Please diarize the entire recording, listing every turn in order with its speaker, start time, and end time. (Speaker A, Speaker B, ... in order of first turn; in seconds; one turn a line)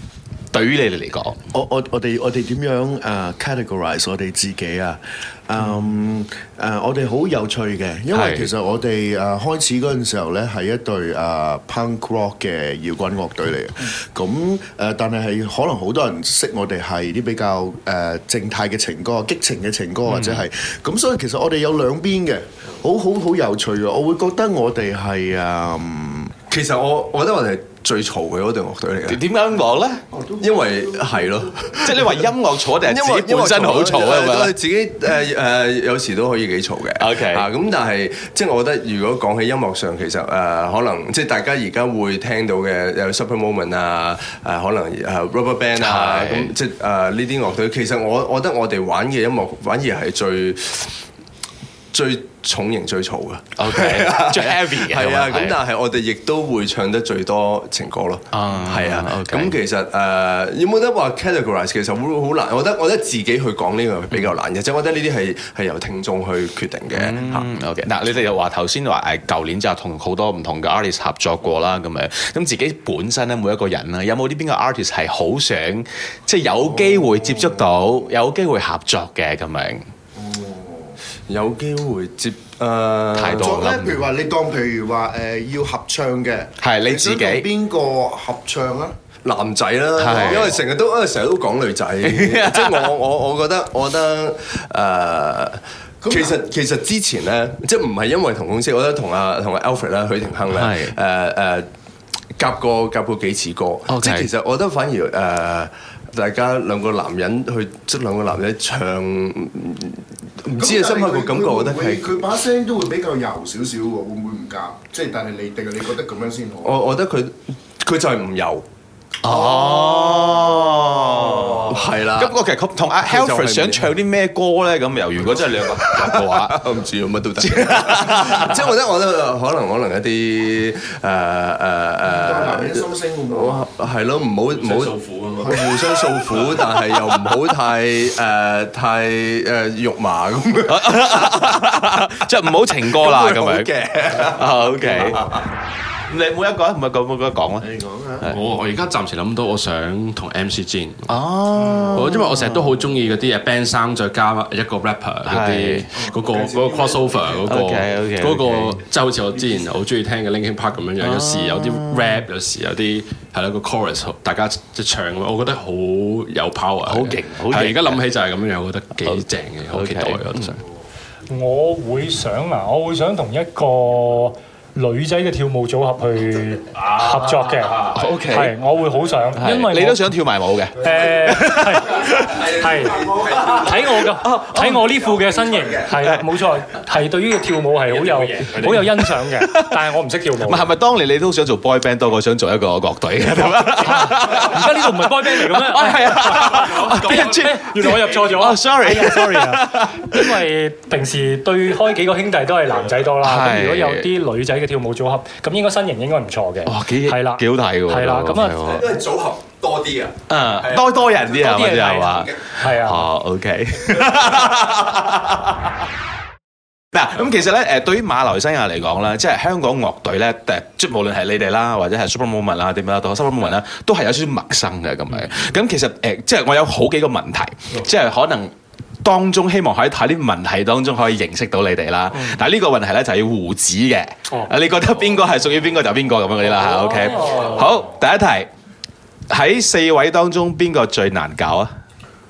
Speaker A: 0.5-1.4
Speaker B: 1.5-26.4
Speaker A: 8.1-8.5
Speaker A: 20.1-20.4
Speaker C: 26.5-29.2
Speaker A: 29.1-30.0
Speaker B: 30.1-31.6
Speaker C: 30.4-50.9
Speaker A: 31.8-34.5
Speaker A: 37.0-37.5
Speaker A: 45.8-46.5
Speaker C: 51.9-67.5
Speaker A: 53.6-55.6
Speaker A: 58.3-59.6
Speaker A: 66.9-79.8
Speaker B: 80.2-81.0
Speaker C: 81.3-83.6
Speaker A: 83.2-84.0
Speaker B: 83.5-89.0
Speaker A: 86.6-87.5
Speaker C: 89.2-101.7
Speaker A: 90.0-90.6
Speaker A: 92.0-92.9
Speaker B: 96.0-96.4
Speaker A: 100.5-101.0
Speaker C: 102.4-112.2
Speaker A: 103.9-104.3
Speaker B: 110.5-116.8
Speaker C: 116.6-118.7
Speaker A: 119.2-126.6
Speaker B: 119.3-119.7
Speaker C: 119.7-122.4
Speaker C: 123.0-124.0
Speaker C: 125.4-141.3
Speaker A: 127.4-128.7
Speaker B: 132.1-133.7
Speaker D: 134.5-135.6
Speaker B: 135.4-136.4
Speaker A: 140.7-145.2
Speaker C: 142.9-145.4
Speaker A: 146.1-147.7
Speaker B: 147.6-148.3
Speaker D: 148.3-151.1
Speaker A: 151.1-152.6
Speaker B: 151.6-152.2
Speaker D: 151.9-170.6
Speaker A: 155.2-155.9
Speaker B: 155.9-157.5
Speaker A: 157.5-158.8
Speaker A: 161.0-162.3
Speaker A: 166.8-168.0
Speaker A: 169.0-170.5
Speaker E: 171.3-180.1
Speaker D: 176.8-178.0
Speaker A: 177.9-178.5
Speaker A: 179.4-182.4
Speaker E: 180.8-190.8
Speaker C: 182.3-184.0
Speaker A: 184.2-184.9
Speaker A: 186.0-186.3
Speaker D: 187.9-188.9
Speaker A: 188.8-189.8
Speaker A: 190.4-200.5
Speaker E: 193.8-208.9
Speaker D: 196.4-197.4
Speaker A: 203.2-204.1
Speaker A: 206.7-208.9
Speaker C: 208.7-211.2
Speaker A: 210.3-215.8
Speaker E: 211.3-213.1
Speaker A: 216.9-228.5
Speaker A: 229.0-238.5
Speaker E: 237.0-237.6
Speaker A: 239.3-241.7